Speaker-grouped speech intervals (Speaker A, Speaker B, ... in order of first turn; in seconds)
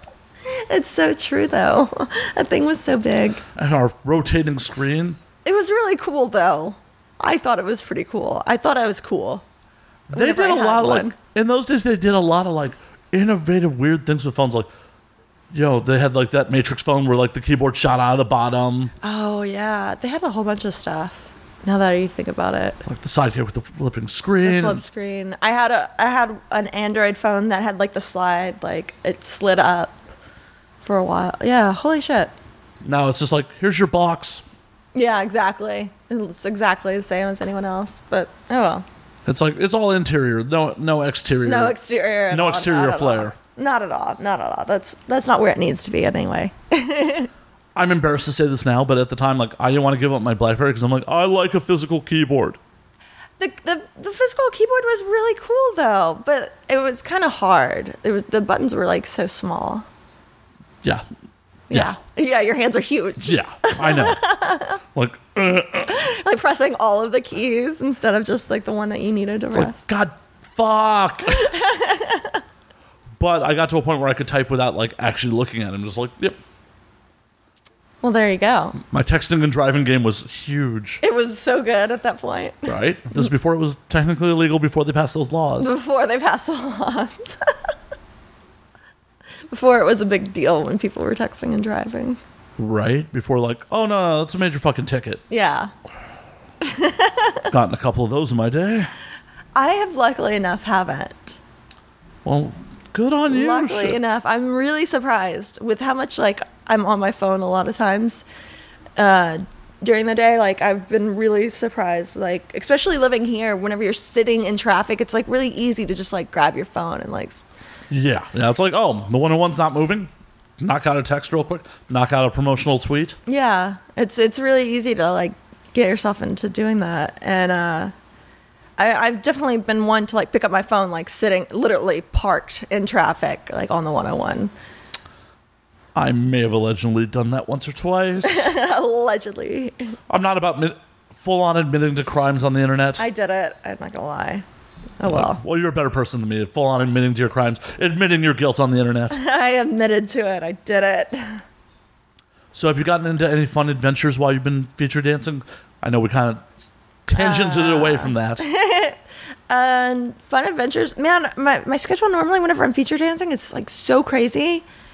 Speaker A: 0.5-3.4, 5.4-9.4, 10.1-11.2, 19.0-22.8, 24.4-30.0, 30.8-32.3, 35.0-38.9, 41.4-47.3, 53.4-59.9, 61.7-64.8, 65.9-69.9, 71.3-72.4, 78.0-78.8, 81.0-83.2, 85.6-87.5, 89.5-92.2, 95.3-95.7, 96.6-97.5, 99.5-101.4, 103.3-108.2, 109.0-117.5, 123.3-127.9, 128.8-134.5, 138.2-140.0, 143.0-144.4, 145.0-145.4, 149.1-151.4, 157.2-164.7
Speaker B: 3.5-5.2, 10.1-14.7, 15.5-18.9, 22.9-24.8, 32.8-34.4, 39.2-41.8, 42.3-43.4, 47.8-52.6, 61.7-62.0, 63.2-64.2, 64.9-66.0, 69.5-71.5, 73.2-76.4, 78.8-81.0, 82.7-85.8, 92.6-95.2, 97.5-98.9, 102.2-104.0, 117.9-123.2, 135.9-138.5, 140.1-143.1, 145.1-149.2, 152.5-158.4